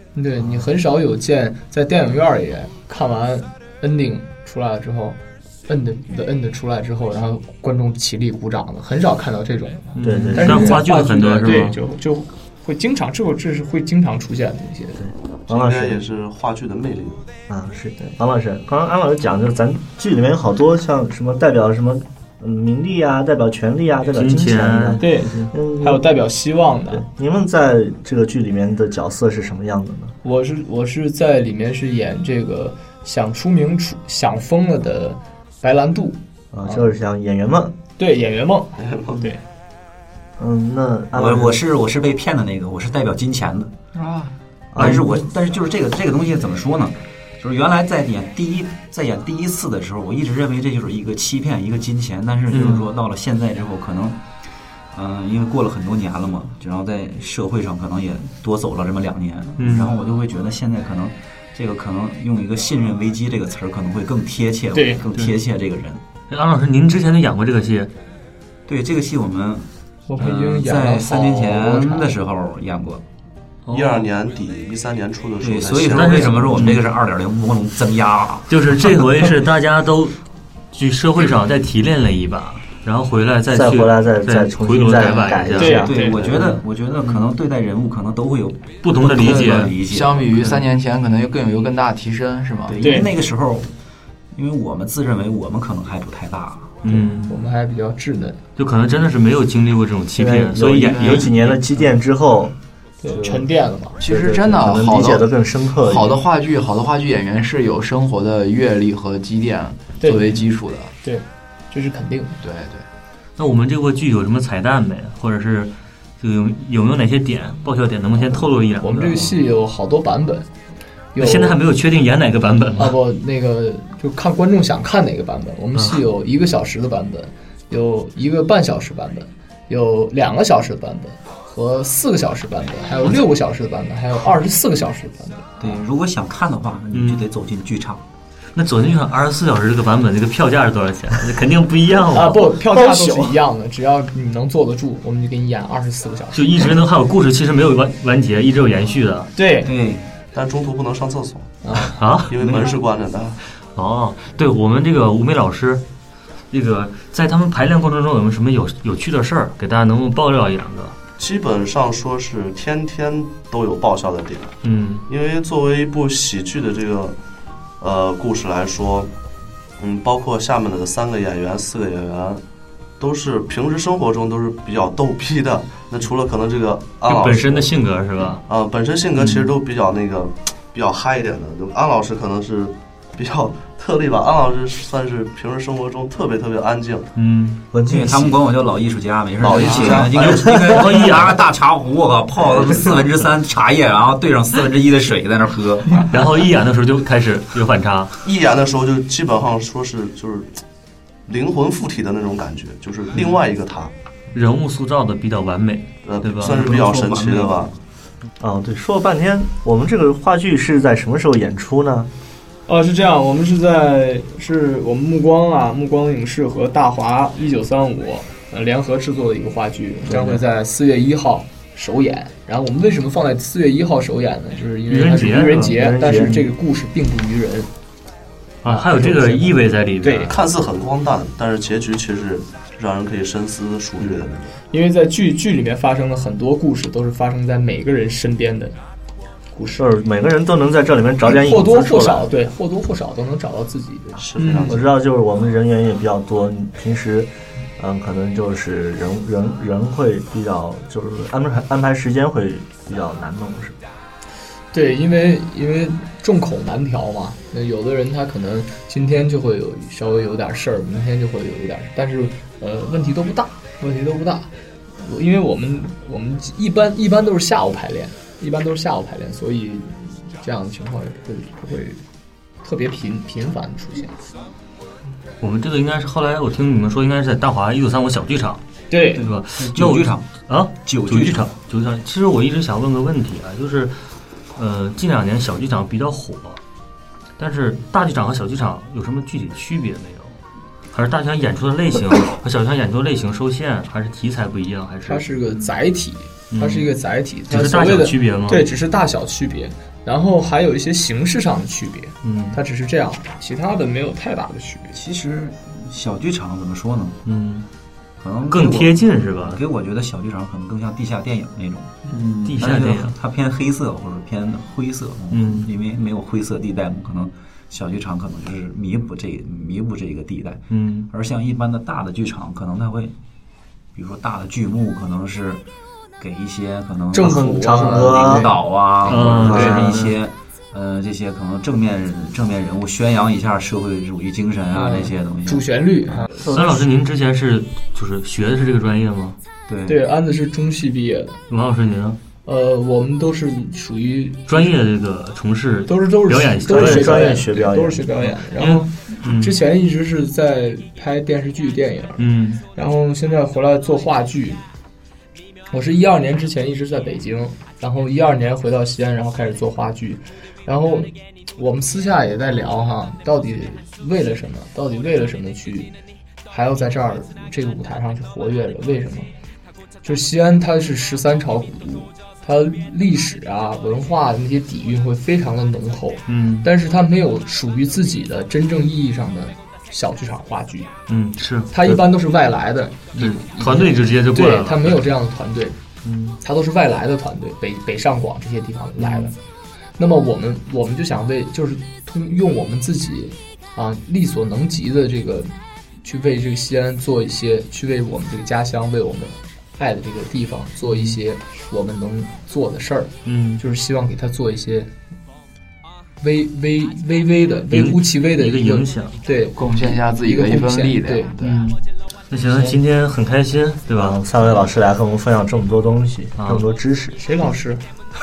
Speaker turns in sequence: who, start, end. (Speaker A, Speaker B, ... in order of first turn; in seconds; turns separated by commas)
Speaker A: 0.1-15.0, Speaker B: 9.9-11.8, Speaker C: 10.0-10.9, Speaker C: 15.0-16.0, Speaker D: 15.5-17.2, Speaker C: 17.5-26.1, Speaker B: 24.1-25.4, Speaker A: 25.0-27.1, Speaker C: 26.9-30.1, Speaker A: 30.2-36.9, Speaker C: 36.5-37.8, Speaker A: 38.0-39.4, Speaker D: 38.8-39.3, Speaker C: 40.4-41.6, Speaker E: 41.1-43.7, Speaker F: 44.0-44.3, Speaker C: 44.7-45.2, Speaker E: 44.8-54.2, Speaker B: 52.5-52.9, Speaker E: 54.9-66.0, Speaker B: 59.6-59.9, Speaker A: 64.7-65.0, Speaker B: 66.3-67.9, Speaker E: 68.7-73.0, Speaker A: 70.1-72.1, Speaker B: 73.7-74.1, Speaker D: 73.7-76.6, Speaker E: 75.4-78.5, Speaker B: 75.9-76.8, Speaker B: 78.5-80.2, Speaker B: 80.7-85.8, Speaker C: 83.5-85.9, Speaker A: 85.6-86.2, Speaker E: 85.6-90.6, Speaker B: 88.8-89.7, Speaker F: 89.1-92.9, Speaker E: 92.7-93.7, Speaker A: 92.8-93.1, Speaker E: 94.3-96.8, Speaker B: 96.8-97.3, Speaker A: 97.2-98.4, Speaker B: 98.6-101.6, Speaker C: 100.2-102.5, Speaker A: 103.0-104.0, Speaker C: 103.2-103.4, Speaker C: 104.0-106.2, Speaker F: 104.0-110.9, Speaker A: 110.0-110.3, Speaker A: 111.0-112.4, Speaker F: 112.4-112.9, Speaker B: 113.4-119.3, Speaker A: 118.8-120.5, Speaker A: 121.1-121.6, Speaker B: 121.2-123.0, Speaker A: 122.8-135.8, Speaker E: 135.6-138.0, Speaker B: 136.9-137.3, Speaker B: 138.6-142.5, Speaker A: 142.1-146.7, Speaker C: 142.7-143.3, Speaker B: 146.3-149.3, Speaker A: 149.4-149.7, Speaker E: 149.6-150.1, Speaker D: 150.3-151.5, Speaker A: 151.6-152.0, Speaker B: 152.0-152.4, Speaker D: 152.3-153.4, Speaker E: 152.4-152.8, Speaker B: 153.8-155.8, Speaker B: 156.5-160.9, Speaker D: 161.2-164.6, Speaker B: 164.6-165.0, Speaker D: 165.1-167.2, Speaker D: 167.8-169.1, Speaker D: 169.8-172.4, Speaker D: 173.0-177.7, Speaker B: 177.1-178.4, Speaker D: 178.5-187.1, Speaker B: 187.2-187.6, Speaker C: 187.7-188.4, Speaker E: 187.9-196.0, Speaker D: 189.4-190.7, Speaker B: 189.6-191.4, Speaker B: 196.0-198.1, Speaker D: 198.2-200.6, Speaker D: 201.3-203.9, Speaker B: 204.3-207.5, Speaker D: 206.0-207.7, Speaker E: 206.5-207.7, Speaker C: 208.4-212.1, Speaker A: 212.7-227.7, Speaker C: 220.1-220.4, Speaker B: 224.9-226.4, Speaker C: 225.6-226.4, Speaker B: 228.6-230.4, Speaker A: 228.7-229.5, Speaker A: 230.0-230.3, Speaker D: 230.3-234.6, Speaker A: 234.7-238.8, Speaker A: 239.5-239.8, Speaker C: 239.8-242.3, Speaker A: 241.2-244.8, Speaker D: 244.2-244.9, Speaker C: 244.7-253.8, Speaker A: 254.7-272.0, Speaker A: 272.6-274.1, Speaker B: 275.4-278.6, Speaker A: 278.9-279.2, Speaker E: 279.1-280.3, Speaker B: 279.2-283.9, Speaker E: 280.8-281.5, Speaker B: 284.5-286.6, Speaker B: 287.4-290.4, Speaker B: 290.9-295.3, Speaker A: 295.1-305.0, Speaker B: 296.5-296.9, Speaker B: 297.5-298.7, Speaker B: 302.2-302.6, Speaker E: 304.9-307.2, Speaker B: 307.3-307.7, Speaker E: 308.2-312.0, Speaker B: 308.5-309.6, Speaker B: 312.4-313.1, Speaker E: 312.5-323.1, Speaker B: 315.3-315.7, Speaker B: 320.7-321.1, Speaker E: 323.9-325.6, Speaker E: 326.2-335.6, Speaker A: 327.1-328.5, Speaker C: 327.2-328.5, Speaker B: 329.1-330.2, Speaker C: 329.1-329.9, Speaker A: 329.5-329.8, Speaker A: 334.7-336.3, Speaker C: 336.3-336.9, Speaker B: 336.5-339.4, Speaker E: 339.7-340.0, Speaker A: 339.9-341.4, Speaker B: 341.5-342.2, Speaker A: 342.4-344.8, Speaker B: 344.5-347.4, Speaker A: 345.9-354.6, Speaker C: 346.7-348.1, Speaker B: 348.6-349.6, Speaker B: 352.2-352.6, Speaker A: 355.7-365.9, Speaker A: 366.5-369.3, Speaker A: 370.0-380.9, Speaker B: 376.3-376.7, Speaker B: 381.1-381.7, Speaker A: 381.7-385.8, Speaker B: 383.2-385.1, Speaker B: 386.0-386.4, Speaker A: 386.4-389.4, Speaker B: 389.0-389.3, Speaker A: 390.0-395.5, Speaker A: 396.0-404.9, Speaker B: 403.2-403.6, Speaker A: 406.2-411.3, Speaker B: 407.7-409.2, Speaker F: 409.6-411.7, Speaker B: 411.4-414.2, Speaker C: 413.9-417.2, Speaker B: 416.4-416.6, Speaker A: 417.2-417.8